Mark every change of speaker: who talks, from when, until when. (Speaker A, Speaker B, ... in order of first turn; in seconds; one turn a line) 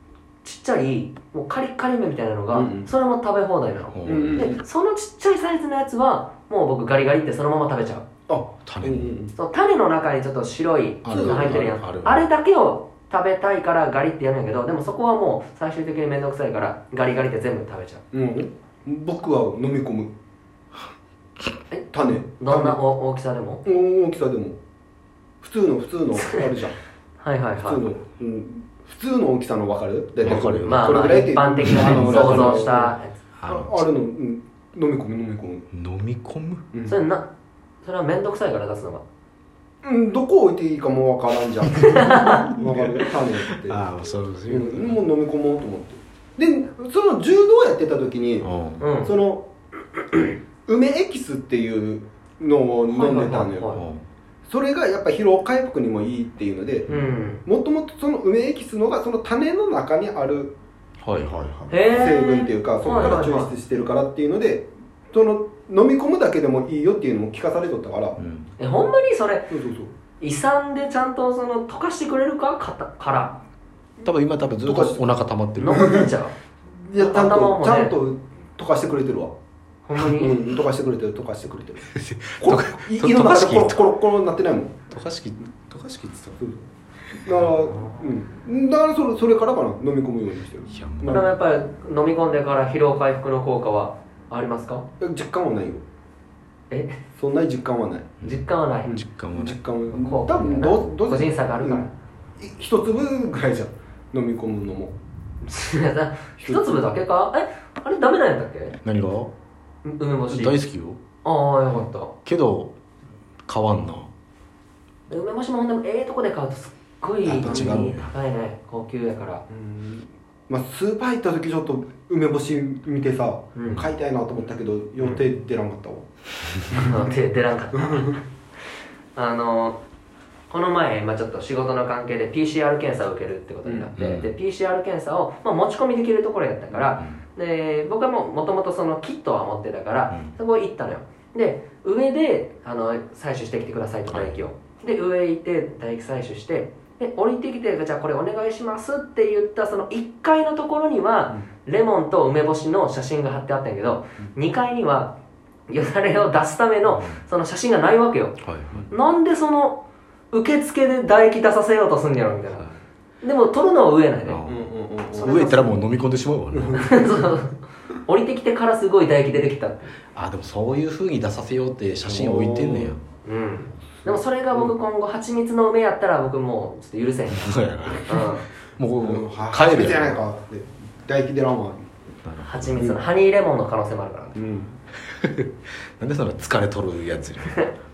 Speaker A: 0.4-8.1
Speaker B: 2.5-2.9
Speaker C: 3.9-4.5
Speaker B: 4.1-4.6
Speaker B: 8.3-9.3
Speaker C: 8.7-9.1
Speaker A: 9.3-18.0
Speaker C: 11.0-12.3
Speaker B: 11.1-11.7
Speaker B: 18.1-20.1
Speaker A: 21.7-23.6
Speaker B: 21.9-22.8
Speaker B: 23.6-24.6
Speaker B: 25.4-26.8
Speaker A: 27.2-27.9
Speaker B: 27.6-33.0
Speaker C: 30.2-31.0
Speaker A: 30.6-33.1
Speaker C: 31.6-32.7
Speaker C: 33.4-33.8
Speaker B: 33.5-35.7
Speaker C: 35.7-36.7
Speaker A: 36.8-37.3
Speaker A: 37.8-39.0
Speaker B: 39.8-43.8
Speaker A: 41.8-42.5
Speaker C: 41.9-42.8
Speaker C: 43.6-45.0
Speaker B: 44.5-48.5
Speaker C: 48.4-48.9
Speaker A: 48.8-49.1
Speaker B: 49.0-49.5
Speaker B: 50.7-53.7
Speaker A: 52.9-53.8
Speaker C: 53.7-54.0
Speaker B: 54.5-56.9
Speaker A: 56.9-57.4
Speaker B: 57.5-60.5
Speaker C: 61.0-61.8
Speaker A: 61.7-63.5
Speaker B: 61.8-68.2
Speaker C: 62.8-63.1
Speaker C: 68.2-68.5
Speaker A: 68.6-69.5
Speaker B: 69.5-69.9
Speaker A: 70.2-73.4
Speaker C: 74.0-76.0
Speaker B: 74.6-75.0
Speaker A: 75.6-76.3
Speaker B: 75.7-76.1
Speaker B: 76.7-79.3
Speaker A: 77.0-78.0
Speaker A: 79.9-80.4
Speaker B: 80.0-84.8
Speaker C: 81.9-83.9
Speaker C: 84.9-86.4
Speaker B: 87.2-91.3
Speaker A: 87.5-88.2
Speaker C: 90.7-91.2
Speaker A: 91.0-94.9
Speaker B: 95.0-95.8
Speaker A: 96.7-97.0
Speaker B: 97.2-98.2
Speaker C: 98.2-99.6
Speaker A: 98.2-99.0
Speaker B: 98.9-104.9
Speaker A: 99.9-101.9
Speaker A: 105.4-108.8
Speaker B: 106.4-106.9
Speaker C: 108.8-109.3
Speaker A: 109.8-110.6
Speaker C: 110.3-111.0
Speaker A: 111.2-112.2
Speaker C: 112.2-112.7
Speaker C: 113.5-114.1
Speaker A: 115.1-119.5
Speaker C: 117.2-118.1
Speaker B: 117.4-117.8
Speaker B: 119.5-126.1
Speaker A: 123.5-123.8
Speaker A: 126.7-128.2
Speaker A: 129.2-129.8
Speaker A: 130.5-155.2
Speaker C: 134.0-134.3
Speaker C: 144.1-144.3
Speaker A: 155.7-158.4
Speaker C: 156.9-157.2
Speaker C: 158.4-158.9
Speaker A: 158.9-164.4
Speaker C: 164.2-166.9
Speaker B: 164.4-165.4
Speaker A: 165.1-165.7
Speaker B: 166.5-167.1
Speaker A: 166.7-170.0
Speaker C: 170.1-173.0
Speaker B: 172.0-173.0
Speaker A: 173.2-178.4
Speaker B: 174.1-174.7
Speaker C: 177.3-180.2
Speaker B: 179.0-181.9
Speaker C: 182.2-183.0
Speaker A: 182.4-184.4
Speaker B: 184.3-184.8
Speaker C: 185.1-187.7